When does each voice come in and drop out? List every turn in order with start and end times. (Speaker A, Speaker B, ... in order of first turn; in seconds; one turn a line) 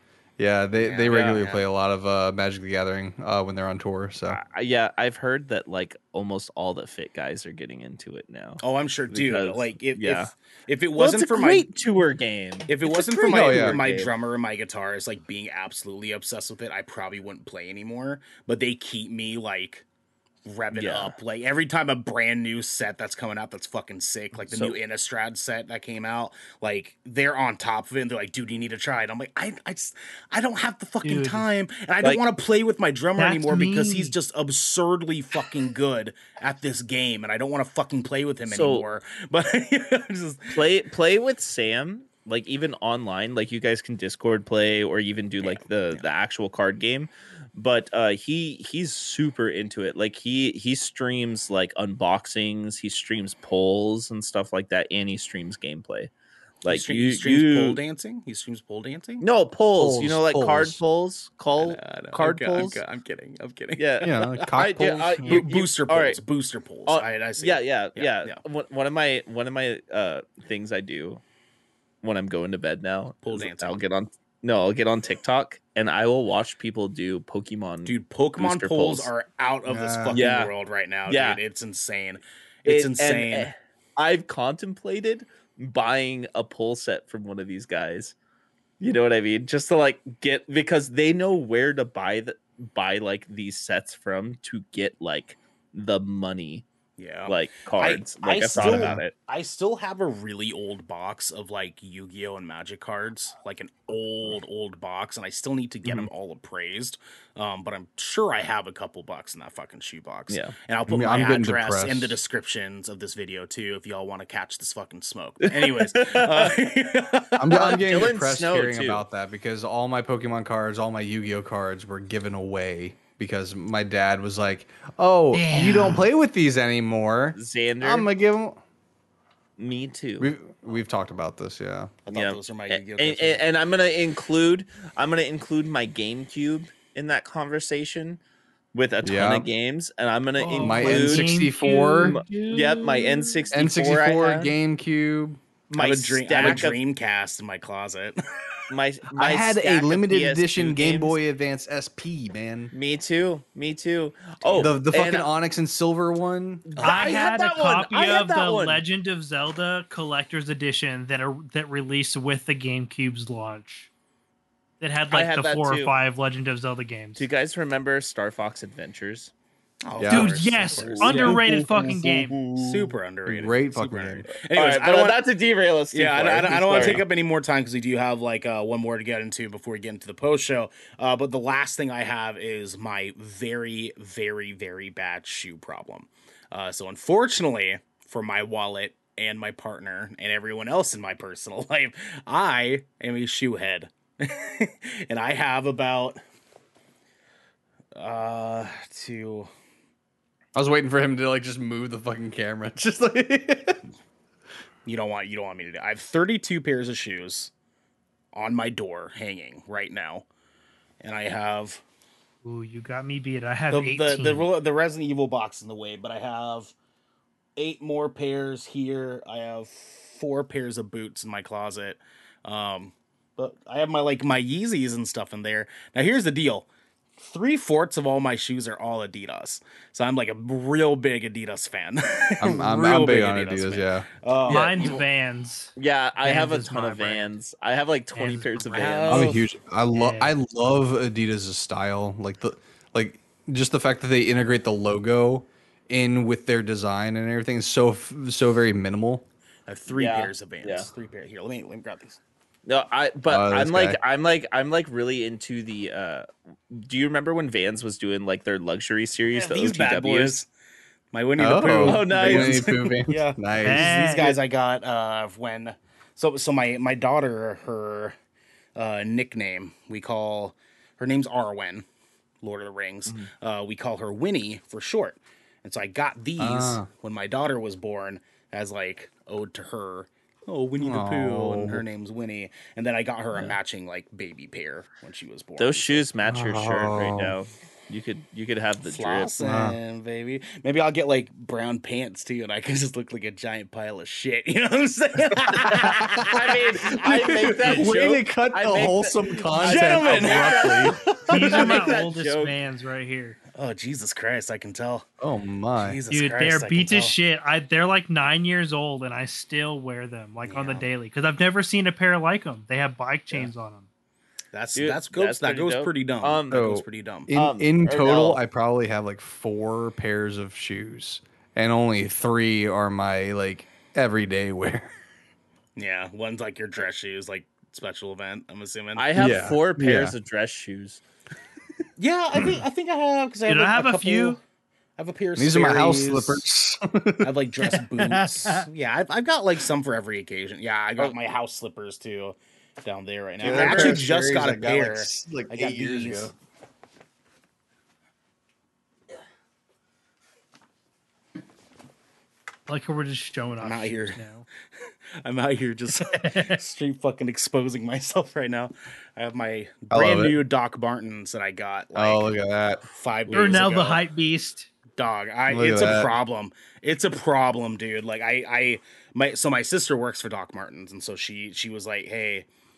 Speaker A: 0.4-4.4
Speaker B: 0.8-1.6
Speaker C: 1.1-1.4
Speaker C: 4.3-10.3
Speaker B: 8.6-11.7
Speaker C: 10.9-14.1
Speaker B: 12.7-19.8
Speaker A: 13.3-13.8
Speaker B: 20.4-40.6
Speaker C: 20.7-21.1
Speaker C: 24.3-24.8
Speaker D: 31.0-31.5
Speaker D: 33.2-34.1
Speaker C: 38.5-38.8
Speaker C: 40.5-56.1
Speaker B: 45.4-46.1
Speaker C: 56.6-57.8
Speaker B: 56.6-59.2
Speaker C: 59.2-62.8
Speaker A: 59.7-60.8
Speaker B: 61.6-64.5
Speaker C: 63.8-66.2
Speaker A: 64.0-65.5
Speaker B: 65.2-68.4
Speaker C: 66.9-71.2
Speaker C: 72.0-79.1
Speaker B: 73.2-73.8
Speaker B: 77.8-83.5
Speaker A: 79.7-80.2
Speaker C: 80.1-80.5
Speaker C: 81.1-81.4
Speaker C: 82.7-88.1
Speaker C: 88.8-96.6
Speaker B: 97.0-117.8
Speaker C: 97.3-99.1
Speaker A: 98.6-99.0
Speaker C: 110.3-110.5
Speaker A: 110.9-112.2
Speaker C: 115.4-116.5
Speaker A: 117.4-128.6
Speaker C: 117.5-119.0
Speaker D: 125.3-126.1
Speaker C: 127.3-128.1
Speaker C: 129.6-130.3
Speaker A: 130.2-131.9
Speaker B: 132.1-133.4
Speaker C: 132.1-138.2
Speaker C: 138.7-141.3
Speaker A: 139.0-139.5
Speaker D: 140.4-143.5
Speaker A: 140.5-142.2
Speaker C: 142.0-144.5
Speaker A: 143.5-145.4
Speaker C: 145.7-146.8
Speaker B: 145.8-148.2
Speaker A: 146.4-146.7
Speaker C: 148.7-151.2
Speaker A: 149.2-152.7
Speaker C: 152.7-155.3
Speaker B: 154.4-154.7
Speaker A: 154.5-156.7
Speaker C: 156.7-158.8
Speaker B: 156.8-157.2
Speaker D: 156.8-163.9
Speaker D: 164.8-167.2
Speaker C: 165.1-165.9
Speaker C: 167.2-169.3
Speaker B: 169.8-171.4
Speaker A: 169.9-171.8
Speaker D: 170.1-172.4
Speaker C: 170.8-172.9
Speaker B: 172.6-175.2
Speaker A: 173.2-174.3
Speaker C: 174.5-177.0
Speaker B: 175.9-196.2
Speaker A: 176.8-177.0
Speaker B: 197.9-199.5
Speaker A: 200.5-203.8
Speaker B: 204.8-207.5
Speaker B: 208.3-210.2
Speaker B: 211.0-211.8
Speaker D: 212.4-214.5
Speaker B: 213.7-216.7
Speaker B: 217.6-235.0
Speaker A: 232.4-234.1
Speaker C: 234.5-235.0
Speaker D: 234.5-237.3
Speaker C: 235.8-239.4
Speaker D: 238.1-239.2
Speaker B: 238.7-239.4
Speaker A: 239.1-249.2
Speaker D: 239.9-240.3
Speaker B: 249.7-252.2
Speaker C: 249.9-250.9
Speaker C: 252.7-260.4
Speaker A: 253.3-254.0
Speaker B: 259.3-260.5
Speaker B: 261.1-268.2
Speaker A: 261.4-263.9
Speaker C: 261.8-262.9
Speaker D: 263.6-264.4
Speaker B: 268.8-271.8
Speaker B: 272.4-286.1
Speaker A: 276.4-276.9
Speaker A: 280.8-281.8
Speaker C: 285.6-289.3
Speaker A: 286.3-287.3
Speaker B: 288.8-297.4
Speaker A: 289.4-289.8
Speaker C: 296.2-302.5
Speaker A: 296.9-301.0
Speaker B: 299.6-300.9
Speaker D: 301.3-303.4
Speaker B: 303.6-305.1
Speaker A: 305.2-306.0
Speaker B: 305.8-307.1
Speaker D: 306.1-313.9
Speaker B: 310.4-310.9
Speaker B: 314.5-317.3
Speaker C: 314.8-316.6
Speaker A: 316.5-324.9
Speaker C: 317.3-318.4
Speaker B: 325.8-329.4
Speaker C: 328.9-331.0
Speaker A: 329.1-330.1
Speaker B: 332.0-334.4
Speaker D: 333.5-334.4
Speaker B: 335.0-336.4
Speaker A: 335.4-337.8
Speaker B: 337.2-346.3
Speaker D: 338.0-338.7
Speaker A: 343.4-346.3
Speaker C: 343.5-343.9
Speaker D: 352.7-354.4
Speaker B: 353.6-354.2
Speaker B: 355.2-364.0
Speaker D: 356.1-356.6
Speaker A: 359.9-360.4
Speaker A: 361.9-362.8
Speaker D: 363.3-364.7
Speaker B: 364.9-372.5
Speaker A: 365.5-366.1